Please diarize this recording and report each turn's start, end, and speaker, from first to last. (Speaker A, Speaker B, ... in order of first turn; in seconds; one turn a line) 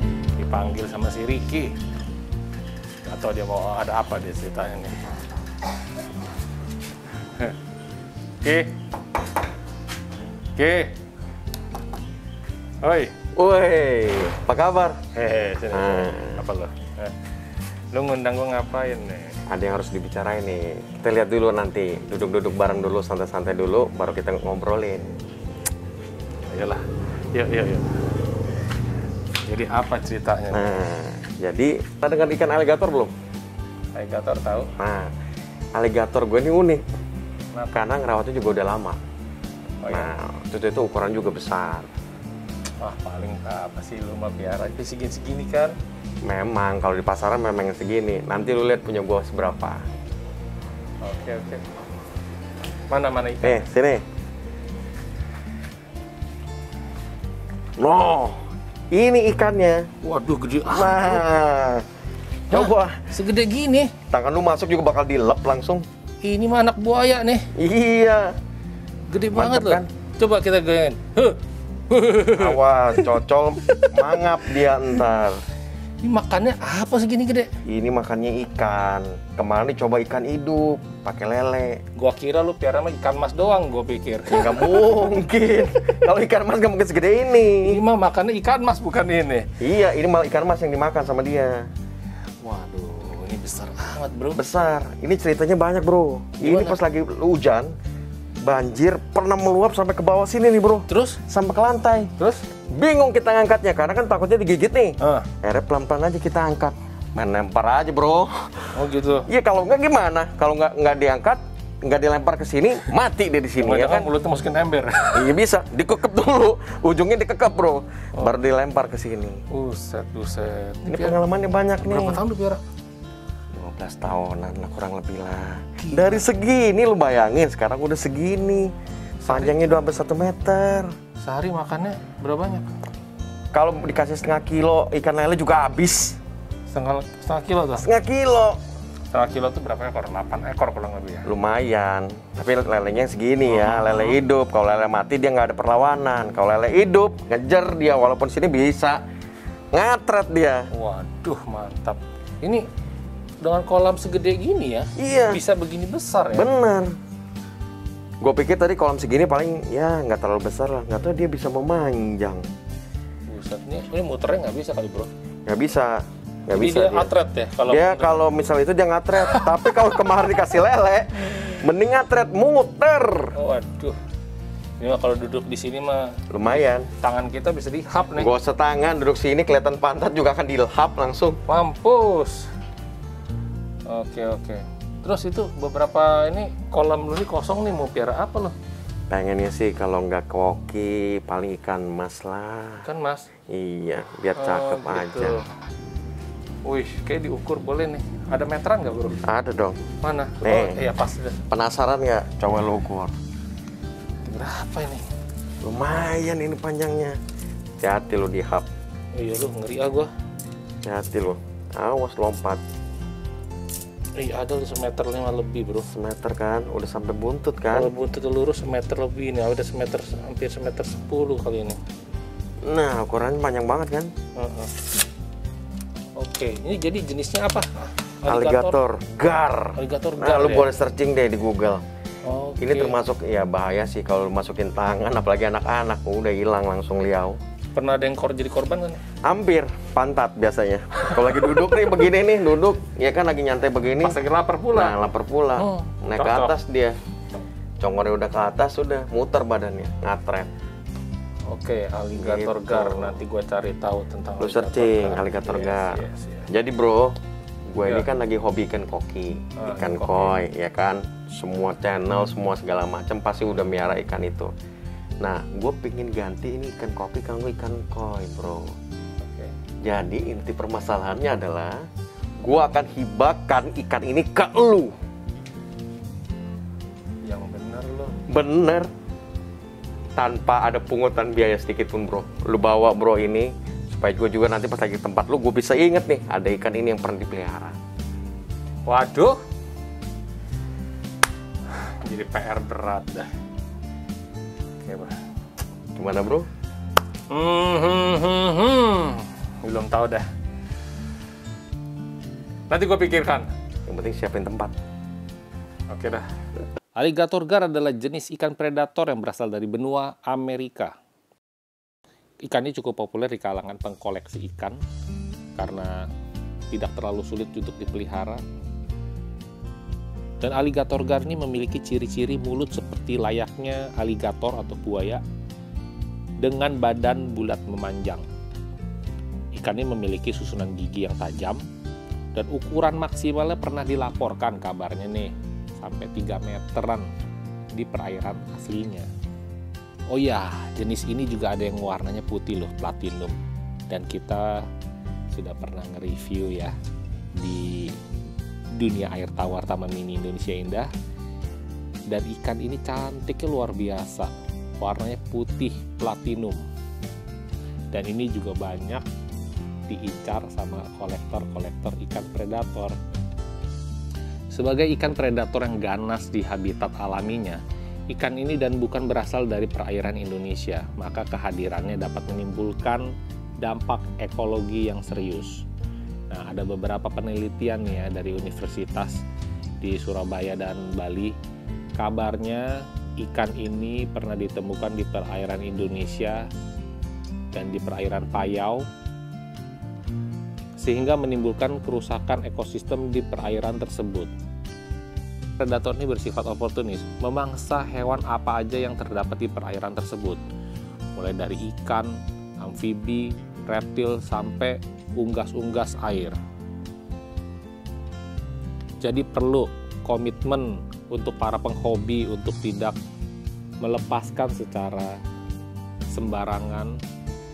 Speaker A: 0.4-1.8
Speaker A: 3.0-5.1
Speaker A: 7.2-7.5
Speaker A: 8.4-8.8
Speaker A: 10.6-10.9
Speaker A: 12.8-13.2
Speaker B: 13.3-15.0
Speaker A: 15.1-17.2
Speaker B: 15.7-16.4
Speaker A: 17.9-19.4
Speaker B: 19.5-25.1
Speaker A: 26.5-28.1
Speaker A: 29.4-30.9
Speaker B: 30.5-33.1
Speaker A: 34.0-34.7
Speaker B: 34.8-35.1
Speaker B: 35.8-36.8
Speaker A: 37.5-37.9
Speaker B: 37.7-39.0
Speaker A: 39.8-40.1
Speaker B: 39.9-41.9
Speaker A: 42.8-45.8
Speaker B: 46.2-49.9
Speaker A: 51.0-51.6
Speaker A: 52.9-53.7
Speaker B: 53.4-54.0
Speaker B: 57.8-59.9
Speaker A: 60.0-61.2
Speaker B: 60.6-61.9
Speaker B: 62.5-63.0
Speaker A: 62.5-63.9
Speaker B: 64.1-65.8
Speaker A: 66.2-67.5
Speaker B: 67.5-68.4
Speaker A: 69.1-73.1
Speaker B: 69.3-69.9
Speaker B: 72.2-75.4
Speaker A: 76.0-77.5
Speaker B: 77.7-81.8
Speaker A: 82.0-85.1
Speaker B: 84.3-87.8
Speaker A: 87.6-89.5
Speaker B: 89.6-91.7
Speaker A: 92.4-94.4
Speaker B: 94.3-97.7
Speaker A: 96.4-96.8
Speaker B: 98.4-102.1
Speaker A: 100.9-101.2
Speaker A: 102.2-102.4
Speaker B: 102.7-108.7
Speaker A: 105.0-105.3
Speaker A: 108.7-109.3
Speaker B: 109.3-114.1
Speaker A: 113.6-115.3
Speaker B: 115.1-119.4
Speaker A: 119.5-121.2
Speaker B: 120.9-122.2
Speaker A: 121.8-122.6
Speaker B: 123.5-128.7
Speaker A: 125.8-126.2
Speaker A: 129.2-129.7
Speaker B: 129.3-130.9
Speaker A: 131.2-132.7
Speaker B: 133.5-136.2
Speaker A: 136.7-137.9
Speaker B: 137.8-138.6
Speaker A: 139.1-141.3
Speaker B: 141.2-149.0
Speaker A: 143.4-144.2
Speaker B: 149.7-150.7
Speaker A: 150.7-152.7
Speaker A: 153.4-156.5
Speaker B: 155.0-155.4
Speaker B: 156.3-156.9
Speaker B: 158.2-162.4
Speaker A: 163.3-165.1
Speaker B: 165.5-167.1
Speaker A: 166.5-168.2
Speaker B: 167.7-173.3
Speaker A: 169.2-169.6
Speaker A: 173.3-174.0
Speaker A: 174.8-178.3
Speaker B: 176.3-176.9
Speaker B: 178.2-181.4
Speaker A: 181.5-182.5
Speaker A: 183.9-188.6
Speaker B: 189.1-192.8
Speaker A: 192.8-193.3
Speaker B: 193.5-195.4
Speaker A: 194.3-195.4
Speaker A: 196.7-199.2
Speaker B: 199.2-199.8
Speaker A: 200.0-201.4
Speaker B: 200.4-200.8
Speaker B: 201.5-203.2
Speaker A: 204.2-205.1
Speaker B: 205.6-207.2
Speaker B: 207.8-208.7
Speaker A: 209.1-210.1
Speaker B: 210.8-212.6
Speaker A: 214.2-215.9
Speaker B: 215.9-217.9
Speaker A: 217.7-221.8
Speaker B: 222.7-224.1
Speaker A: 224.4-224.7
Speaker A: 226.2-228.8
Speaker B: 228.3-231.8
Speaker A: 229.8-230.7
Speaker A: 232.2-233.0
Speaker B: 232.6-237.4
Speaker A: 237.7-239.0
Speaker B: 239.3-244.2
Speaker A: 244.0-245.0
Speaker B: 244.7-246.9
Speaker A: 245.6-246.6
Speaker B: 247.8-250.5
Speaker A: 251.5-256.5
Speaker B: 252.2-253.1
Speaker B: 254.4-256.0
Speaker B: 256.5-257.2
Speaker B: 257.7-264.5
Speaker A: 259.6-260.4
Speaker B: 265.2-268.8
Speaker A: 269.2-269.5
Speaker B: 269.8-271.8
Speaker B: 272.4-274.9
Speaker A: 277.2-278.2
Speaker B: 278.3-278.9
Speaker B: 280.2-287.8
Speaker A: 288.9-289.4
Speaker A: 291.7-293.3
Speaker A: 294.8-295.1
Speaker B: 296.0-296.5
Speaker A: 297.3-300.3
Speaker A: 302.7-303.5
Speaker B: 303.9-304.7
Speaker A: 305.9-306.3
Speaker A: 307.0-310.9
Speaker A: 312.4-314.8
Speaker A: 315.6-316.1
Speaker A: 316.7-318.4
Speaker A: 320.4-325.2
Speaker A: 326.4-328.3
Speaker A: 329.6-331.6
Speaker A: 332.3-337.1
Speaker A: 337.8-339.1
Speaker A: 340.1-344.7
Speaker A: 345.3-346.7
Speaker A: 347.4-348.0
Speaker A: 348.8-350.9
Speaker A: 352.1-356.7
Speaker A: 357.9-359.1
Speaker A: 359.9-363.0
Speaker A: 364.5-367.6
Speaker A: 368.1-375.7
Speaker A: 376.3-379.2
Speaker A: 379.8-381.4
Speaker A: 382.0-382.7
Speaker A: 383.2-386.5
Speaker A: 387.5-388.9
Speaker A: 390.8-394.3
Speaker A: 395.6-400.4
Speaker A: 401.2-406.4
Speaker A: 409.0-413.0
Speaker A: 413.8-415.2
Speaker A: 416.1-417.0